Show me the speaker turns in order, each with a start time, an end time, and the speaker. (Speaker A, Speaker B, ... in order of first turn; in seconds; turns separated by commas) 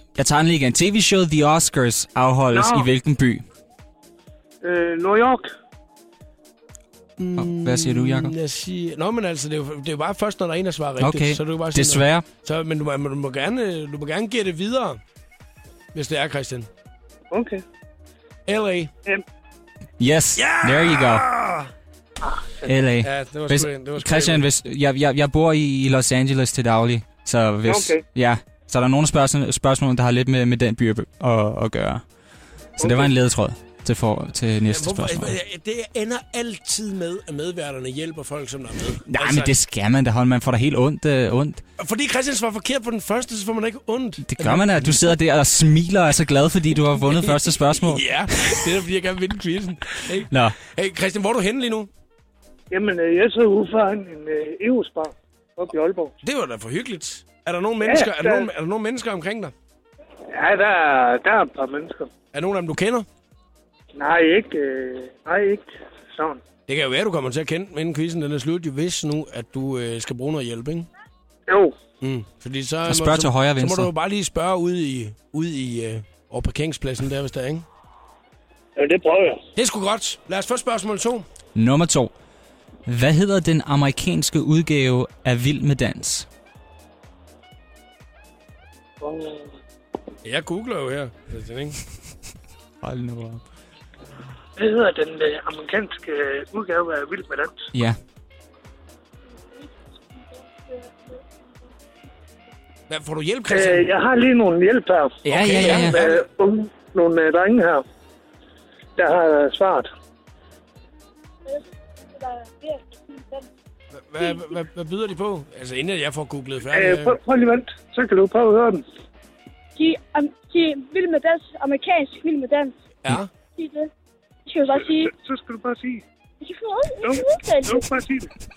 Speaker A: 0.2-3.4, Speaker B: 2.5-2.9, Speaker B: 4.6-5.5, Speaker C: 7.2-15.0, Speaker A: 7.4-8.3, Speaker A: 11.0-12.3, Speaker C: 15.9-16.7, Speaker B: 17.3-17.6, Speaker C: 18.5-18.9, Speaker A: 20.0-21.3, Speaker C: 20.4-21.7, Speaker A: 22.7-32.0, Speaker C: 23.0-24.4, Speaker B: 27.7-28.0, Speaker A: 32.8-35.4, Speaker B: 32.8-33.1, Speaker C: 34.7-39.5, Speaker A: 39.1-41.6, Speaker C: 41.8-45.1, Speaker A: 44.2-48.5, Speaker C: 47.1-51.9, Speaker A: 50.3-50.6, Speaker B: 52.7-56.1, Speaker C: 56.2-59.5, Speaker B: 57.8-58.5, Speaker B: 60.3-62.1, Speaker C: 62.3-63.1, Speaker B: 64.0-66.4, Speaker C: 66.7-70.9, Speaker B: 71.5-71.8, Speaker C: 72.0-77.7, Speaker A: 72.9-73.9, Speaker B: 78.8-79.4, Speaker C: 79.6-81.3, Speaker A: 81.6-82.1, Speaker A: 82.9-86.3, Speaker B: 89.0-89.5, Speaker C: 90.2-91.8, Speaker A: 92.8-93.5, Speaker B: 94.6-97.6, Speaker A: 97.7-98.0, Speaker C: 102.9-103.9, Speaker B: 103.5-107.8, Speaker A: 105.2-106.1, Speaker C: 105.3-106.2, Speaker B: 109.0-109.9, Speaker D: 111.5-113.5, Speaker C: 113.9-117.2, Speaker B: 116.7-118.8, Speaker D: 119.8-122.7, Speaker C: 123.0-123.3, Speaker D: 123.6-123.9, Speaker D: 124.5-125.1, Speaker B: 125.2-126.0, Speaker D: 126.4-127.9, Speaker B: 127.0-128.3